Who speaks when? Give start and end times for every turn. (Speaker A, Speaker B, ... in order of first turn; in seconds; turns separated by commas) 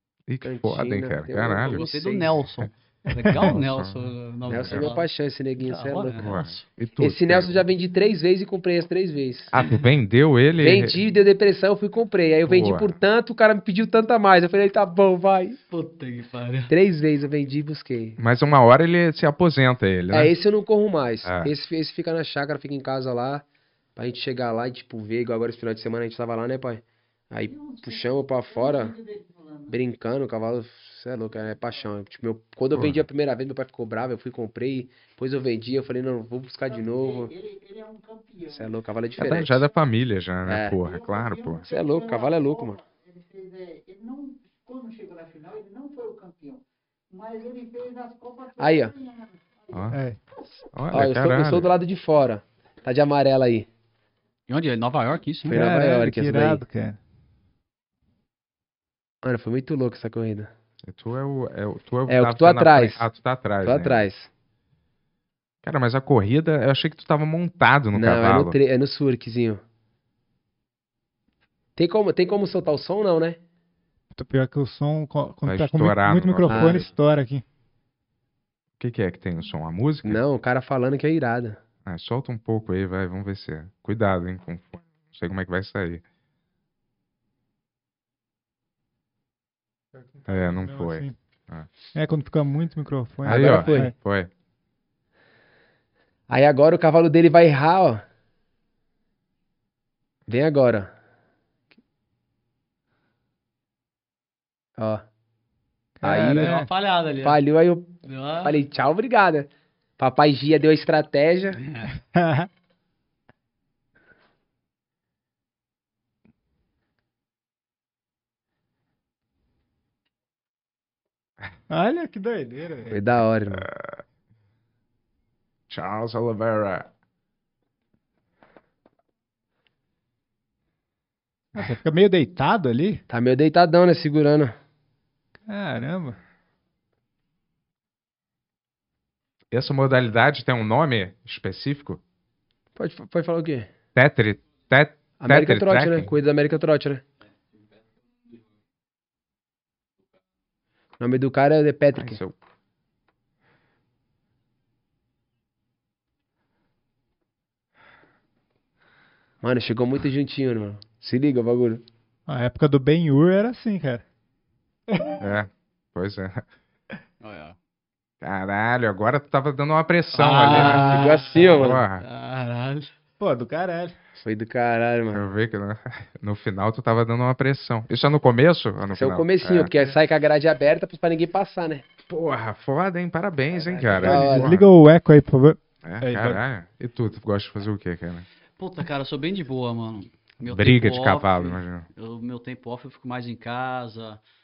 Speaker A: 0.3-1.8, Speaker B: 0.4-2.3, Speaker C: 1.6-5.0, Speaker A: 3.3-4.0, Speaker B: 4.5-6.4, Speaker A: 4.6-4.9, Speaker C: 5.6-6.6, Speaker A: 6.2-7.7, Speaker B: 7.0-9.5, Speaker A: 9.5-11.0, Speaker B: 10.6-15.6, Speaker A: 12.4-12.9, Speaker C: 15.7-16.7, Speaker B: 16.7-18.2, Speaker A: 18.2-20.3, Speaker B: 20.1-23.4, Speaker A: 21.2-21.5, Speaker B: 23.9-28.9, Speaker D: 27.4-29.8, Speaker B: 29.7-37.3, Speaker A: 32.7-33.0, Speaker D: 36.7-38.7, Speaker B: 38.5-39.6, Speaker A: 39.2-41.7, Speaker B: 40.5-40.8, Speaker D: 40.8-49.9, Speaker B: 41.7-42.8, Speaker B: 48.6-48.9, Speaker A: 49.7-50.0, Speaker E: 49.9-50.2, Speaker A: 50.7-51.7, Speaker B: 50.9-53.7, Speaker C: 54.5-55.5, Speaker B: 55.4-56.6, Speaker E: 55.5-57.0, Speaker B: 59.2-60.5, Speaker A: 60.8-64.1, Speaker B: 62.1-63.0, Speaker B: 63.6-64.3, Speaker A: 65.6-68.6, Speaker B: 67.9-69.6, Speaker B: 71.8-73.4, Speaker E: 74.1-77.4, Speaker A: 75.4-76.8, Speaker B: 76.5-76.8, Speaker A: 78.8-80.2, Speaker B: 80.0-81.6, Speaker A: 81.8-86.0, Speaker E: 89.9-91.2, Speaker A: 90.3-91.7, Speaker E: 91.9-93.9, Speaker A: 93.2-94.3, Speaker B: 93.2-93.9, Speaker B: 96.3-98.0, Speaker B: 100.3-100.9, Speaker B: 104.8-105.0, Speaker E: 106.0-106.7, Speaker B: 106.0-106.6, Speaker C: 106.2-107.4, Speaker B: 107.2-111.6, Speaker C: 108.0-108.6, Speaker C: 111.6-111.9, Speaker E: 112.0-112.5, Speaker E: 121.7-123.0, Speaker B: 122.9-123.7, Speaker A: 123.5-124.0, Speaker A: 125.7-126.9, Speaker E: 131.5-133.0, Speaker B: 133.1-134.5, Speaker E: 135.5-136.2, Speaker A: 139.5-142.0, Speaker B: 142.8-143.7, Speaker A: 143.9-146.1, Speaker B: 145.2-147.0, Speaker B: 151.0-152.2, Speaker A: 151.9-152.3, Speaker B: 159.4-161.8, Speaker E: 162.3-164.0, Speaker A: 165.2-166.5, Speaker C: 167.2-167.6, Speaker A: 168.2-172.0, Speaker C: 170.1-172.9, Speaker B: 170.5-171.8, Speaker E: 173.2-173.9, Speaker B: 174.2-175.2, Speaker A: 175.1-179.7, Speaker B: 178.9-181.8, Speaker A: 182.1-184.6, Speaker B: 183.6-184.5, Speaker E: 184.0-186.4, Speaker A: 185.8-188.3, Speaker C: 188.6-194.2, Speaker A: 190.4-191.9